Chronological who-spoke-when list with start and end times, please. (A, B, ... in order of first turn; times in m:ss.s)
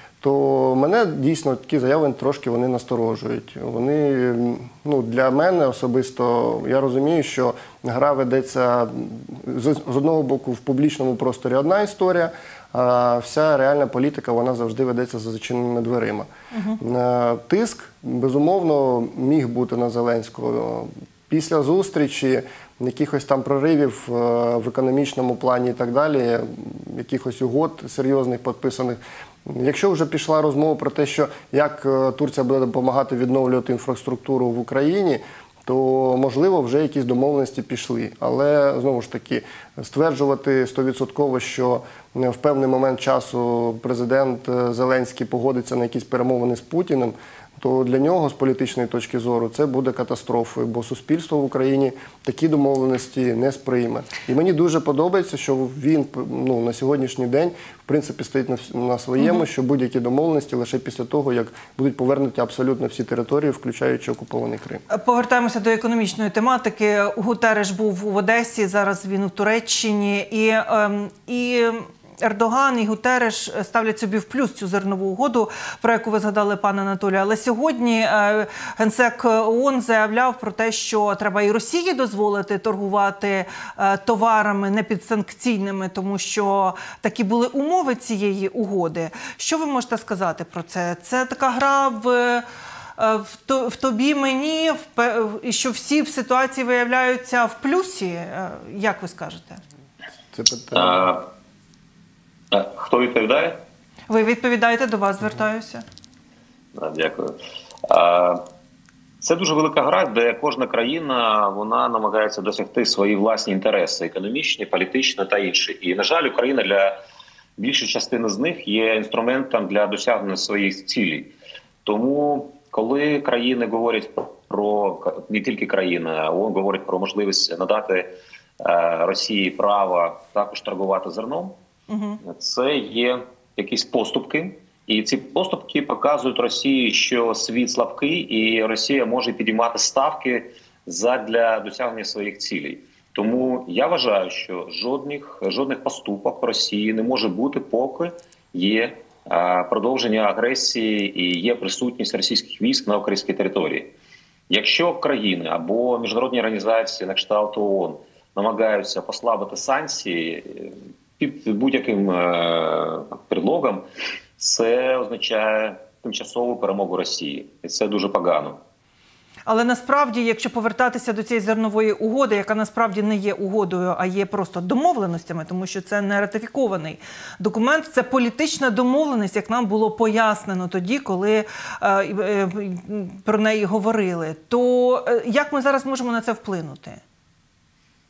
0:00.2-0:16.3 A
0:16.5-0:16.8 B
0:16.8-1:04.8 A
0:59.2-0:59.4 B
1:04.9-1:32.4 B
1:33.0-1:39.6 B
1:40.3-1:41.1 A
1:40.7-1:41.3 C
1:42.5-1:43.6 C
1:44.1-1:45.8 B
1:46.8-1:47.4 C
1:47.9-1:48.4 C
1:49.2-1:57.0 C
1:57.6-2:01.3 C
2:01.9-2:08.1 C
2:08.6-2:11.5 C
2:11.9-2:12.2 B
2:12.2-2:33.9 C
2:34.5-2:43.8 C
2:44.4-2:48.6 C
2:49.5-3:07.0 B